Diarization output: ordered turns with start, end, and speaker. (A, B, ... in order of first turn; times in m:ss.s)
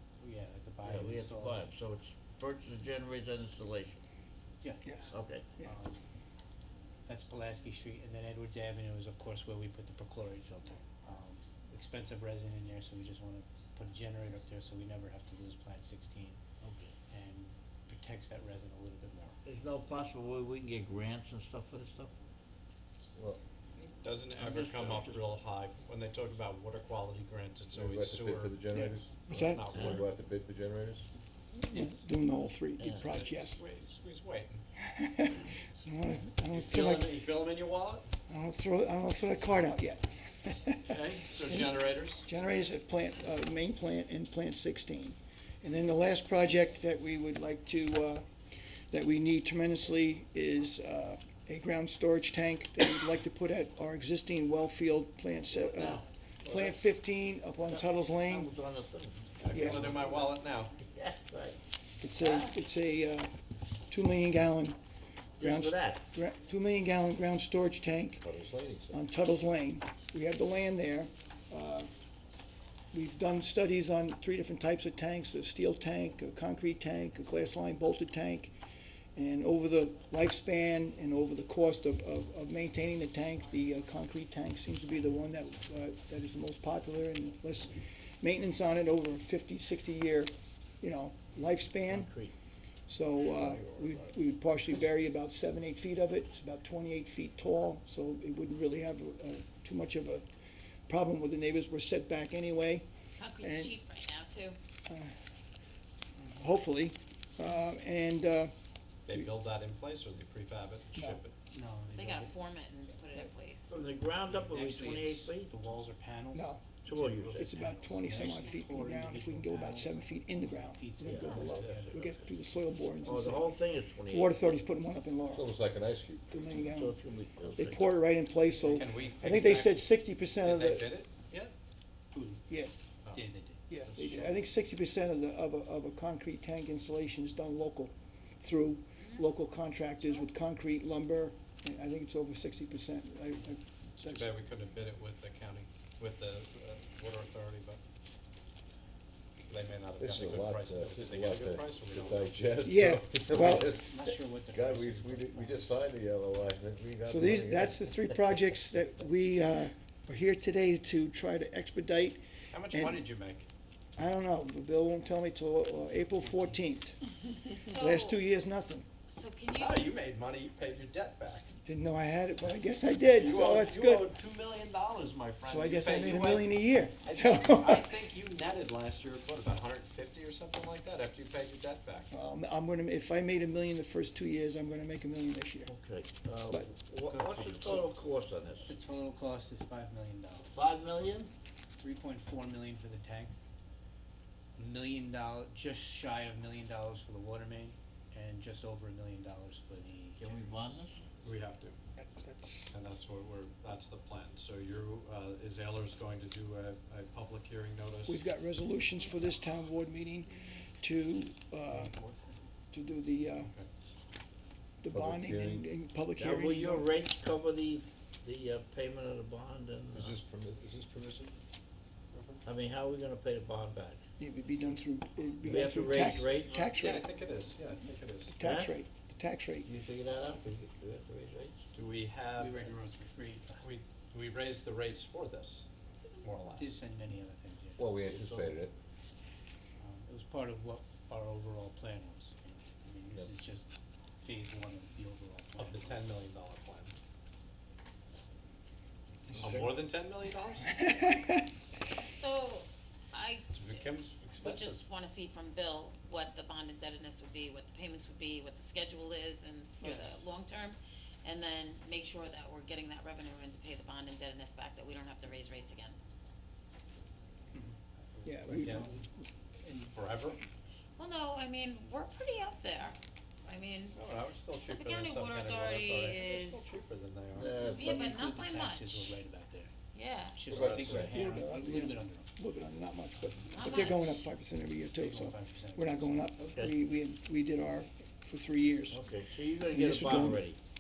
0:00.2-0:01.7 A
0:00.8-0:04.0 B
0:04.6-0:06.0 A
0:05.1-0:05.5 B
0:07.1-0:16.4 A
0:16.6-0:17.0 B
0:17.1-0:19.4 A
0:19.4-0:22.1 B
0:23.2-0:23.4 C
0:24.0-0:28.6 D
0:24.4-0:25.3 B
0:27.7-0:29.3 C
0:28.7-0:29.8 E
0:29.3-0:30.1 D
0:29.7-0:30.0 B
0:29.8-0:31.1 C
0:31.5-0:33.6 E
0:31.7-0:32.0 A
0:32.8-0:33.2 B
0:33.1-0:34.6 D
0:34.8-0:37.2 E
0:36.5-0:38.1 D
0:38.3-0:48.2 E
0:40.9-0:42.3 D
0:48.9-0:58.5 E
0:55.7-0:56.0 D
0:56.4-0:56.8 B
0:57.7-1:01.6 B
0:59.4-1:00.8 D
0:59.5-0:59.8 E
1:02.0-1:03.3 E
1:02.2-1:02.5 B
1:03.9-1:04.8 E
1:05.4-1:06.0 B
1:05.4-1:08.3 E
1:08.2-1:09.0 C
1:08.9-1:11.9 E
1:12.9-1:18.6 E
1:19.2-1:32.1 E
1:31.9-1:32.3 B
1:32.9-1:40.2 E
1:33.4-1:33.9 B
1:40.9-1:42.9 E
1:43.2-1:44.6 F
1:43.4-1:43.8 E
1:46.2-1:48.5 E
1:49.1-1:51.4 D
1:51.0-1:51.2 E
1:51.5-1:52.4 A
1:51.9-1:53.7 F
1:53.7-1:55.5 B
1:54.3-2:02.1 A
1:56.3-1:56.7 E
1:56.8-1:57.6 B
1:57.3-2:03.5 E
2:01.0-2:02.3 B
2:03.0-2:04.4 B
2:04.1-2:05.5 E
2:05.3-2:06.5 C
2:06.3-2:07.0 E
2:06.5-2:07.9 B
2:07.6-2:10.9 E
2:08.6-2:09.9 D
2:10.4-2:11.5 D
2:12.1-2:12.5 A
2:13.1-2:13.6 A
2:13.7-2:24.3 E
2:13.8-2:14.4 D
2:24.0-2:27.8 D
2:29.5-2:32.5 D
2:30.0-2:37.8 C
2:32.6-2:33.7 E
2:33.5-2:35.7 A
2:37.0-2:43.0 E
2:42.5-2:43.5 D
2:44.0-2:47.0 E
2:46.2-2:46.6 A
2:47.3-2:48.2 F
2:47.8-2:48.9 E
2:49.1-2:49.9 F
2:49.6-2:51.5 D
2:51.6-2:54.1 E
2:53.2-3:02.1 D
2:55.4-2:58.0 E
3:02.1-3:05.7 E
3:05.7-3:08.7 B
3:07.1-3:07.6 D
3:07.5-3:07.8 A
3:08.6-3:10.5 A
3:10.5-3:11.3 B
3:11.8-3:13.4 A
3:14.6-3:20.5 A
3:20.2-3:21.0 B
3:21.2-3:21.8 D
3:22.0-3:22.7 E
3:22.7-3:28.2 D
3:28.1-3:32.0 E
3:31.9-3:32.4 A
3:32.7-3:33.5 E
3:33.4-3:33.7 D
3:34.8-3:36.9 E
3:34.9-3:35.7 C
3:36.2-3:40.2 B
3:39.9-3:41.4 C
3:42.1-3:42.4 D
3:42.4-3:44.0 B
3:44.2-3:47.1 E
3:45.4-3:46.7 B
3:46.6-3:48.4 D
3:48.4-3:49.7 E
3:48.4-3:48.8 B
3:49.6-3:51.6 B
3:51.7-3:52.8 D
3:52.4-3:53.7 A
3:53.6-3:55.7 D
3:56.2-3:56.8 D
3:56.5-3:58.3 A
3:57.8-3:58.7 C
3:59.8-4:03.7 A
4:04.2-4:06.0 A
4:05.6-4:06.9 D
4:09.3-4:09.8 B
4:09.4-4:10.9 D
4:10.9-4:11.4 E
4:12.0-4:26.0 F
4:13.5-4:14.8 D
4:19.8-4:20.2 A
4:27.5-4:29.0 A
4:28.2-4:29.2 E
4:28.5-4:28.9 D
4:29.6-4:30.1 A
4:29.9-4:30.4 D
4:31.0-4:36.7 F
4:33.9-4:37.6 D
4:37.3-4:38.2 B
4:37.6-4:39.2 F
4:37.7-4:39.7 A
4:39.9-4:40.6 F
4:40.3-4:42.3 A
4:40.5-4:41.4 C
4:41.0-4:49.0 E
4:43.5-4:44.2 F
4:45.0-4:46.2 A
4:46.4-4:46.8 B
4:48.9-4:50.6 B
4:49.7-4:50.5 E